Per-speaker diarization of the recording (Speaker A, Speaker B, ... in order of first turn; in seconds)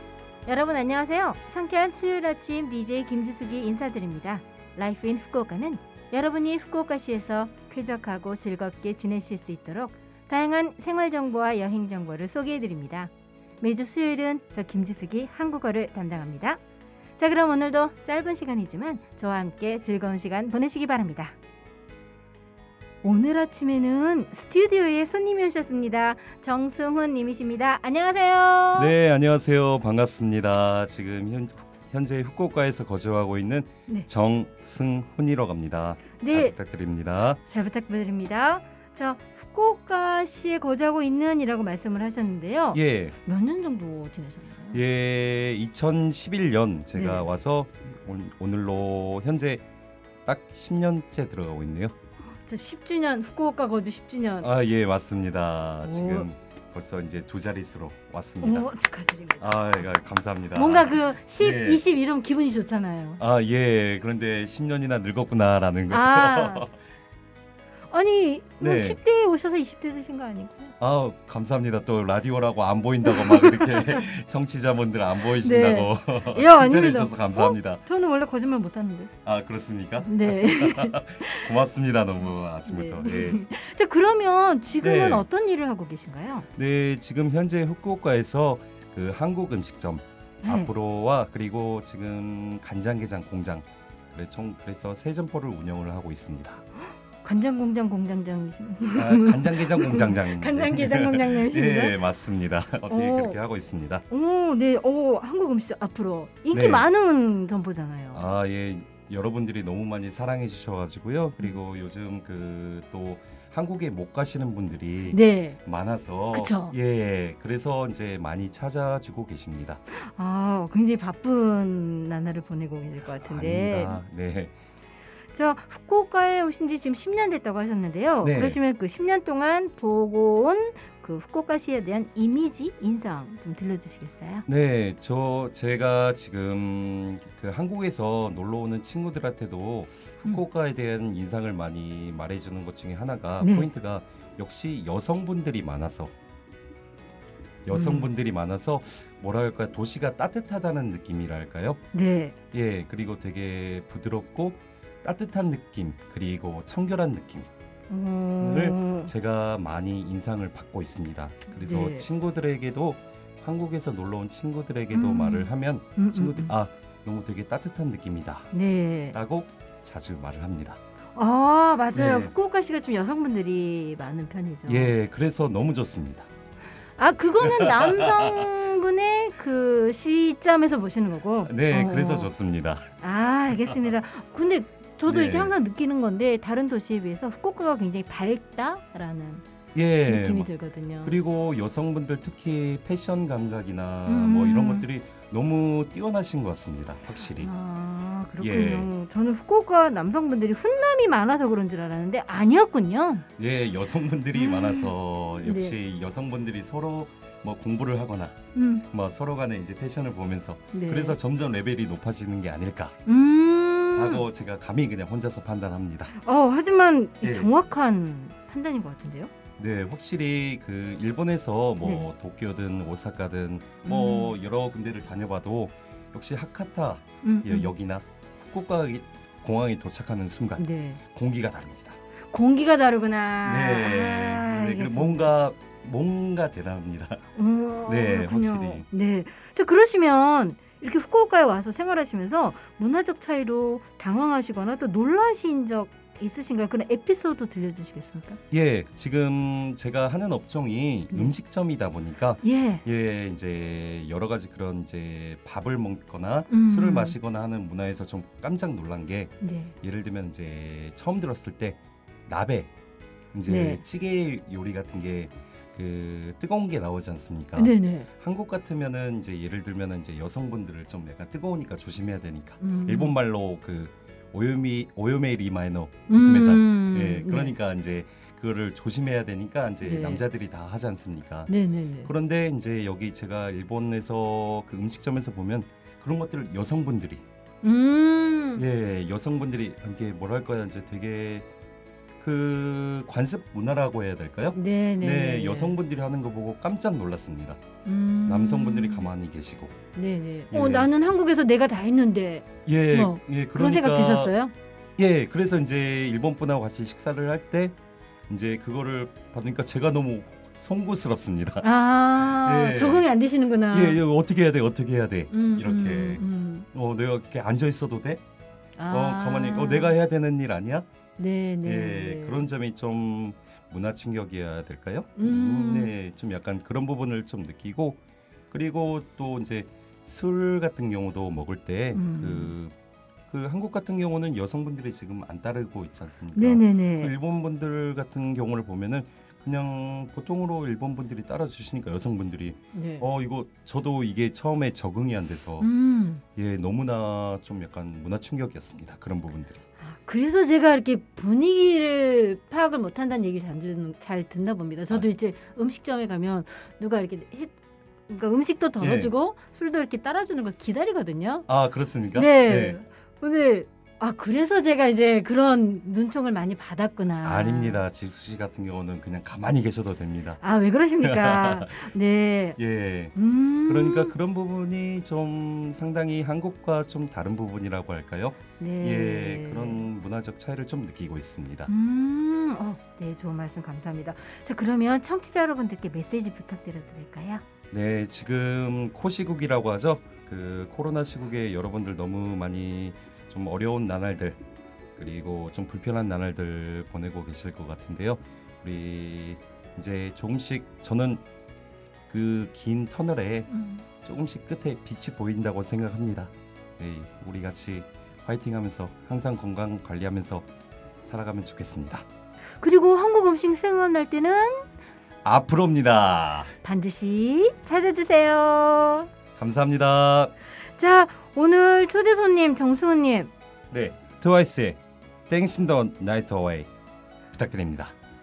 Speaker A: 0.5-16.6, 17.2-21.4, 23.0-28.9, 36.2-36.5, 37.5-44.8, 46.9-47.3, 52.4-54.5, 55.8-56.3, 58.4-59.7, 60.5-63.2, 65.9-66.7, 67.9-70.7, 73.0-74.1, 75.4-79.1, 80.0-81.5, 82.7-86.5, 90.4-90.7, 97.2-102.0, 102.9-103.4, 104.1-108.2, 115.1-115.6, 116.3-116.8, 119.9-124.0, 125.3-134.4, 143.4-143.7, 147.7-148.1, 151.9-152.3, 157.9-159.1, 161.5-162.1, 164.9-166.5, 168.5-169.2, 171.1-174.9, 177.0-182.3, 183.0-189.4, 190.0-191.2, 194.1-194.9, 197.3-203.2, 204.3-205.8, 208.5-208.9, 210.7-211.2, 213.1-214.2, 216.2-219.3, 221.8-222.1, 223.8-224.3, 227.2-227.7, 230.6-231.0, 232.3-235.3, 237.3-248.4, 252.4-252.8, 256.5-257.1, 259.4-259.7, 263.4-263.8, 267.5-268.1, 272.6-273.1, 276.1-277.5, 279.8-280.2, 281.5-282.1, 287.6-288.6, 294.5-295.8, 297.8-299.1, 299.9-304.5, 311.6-314.0, 315.3-316.7, 318.8-320.0, 321.2-322.5, 325.2-325.9, 331.9-332.5, 336.3-337.1, 342.7-343.1, 345.6-346.2, 349.8-357.5, 358.1-361.4, 362.1-367.8, 370.4-372.6, 373.1-374.1, 378.6-379.9, 381.7-387.4, 403.5-403.8, 412.6-414.7, 416.6-419.1, 420.8-423.3
Speaker B: 28.7-37.4, 42.7-43.1, 44.7-49.6, 50.2-51.9, 54.4-58.7, 59.4-61.8, 63.2-66.7, 68.6-69.0, 70.8-77.8, 79.2-83.4, 84.8-85.2, 86.5-96.6, 99.0-104.0, 106.5-106.8, 108.1-119.8, 123.2-124.5, 128.2-128.6, 134.5-146.1, 147.6-151.8, 152.5-157.5, 158.4-168.5, 169.1-170.8, 171.9-172.3, 174.7-176.3, 177.4-178.5, 181.4-182.8, 185.1-185.5, 189.7-190.5, 191.0-197.5, 198.4-198.9, 203.4-208.3, 208.9-212.9, 213.9-216.2, 217.2-217.5, 219.6-232.0, 233.4-237.2, 237.8-238.9, 248.5-262.7, 263.3-281.5, 282.0-287.2, 288.6-291.4, 292.2-297.6, 298.2-299.8, 300.5-300.9, 302.6-304.3, 305.0-307.8, 308.3-313.1, 313.7-318.2, 318.9-320.9, 321.6-328.0, 328.5-332.7, 333.3-345.7, 346.4-349.6, 358.8-359.1, 361.5-362.8, 367.2-370.4, 371.0-371.8, 372.6-373.1, 373.6-381.7, 387.7-394.4, 394.9-401.2, 402.1-403.5, 404.0-410.4, 411.0-412.0, 415.2-416.5, 419.4-420.3, 423.7-426.7, 427.3-427.9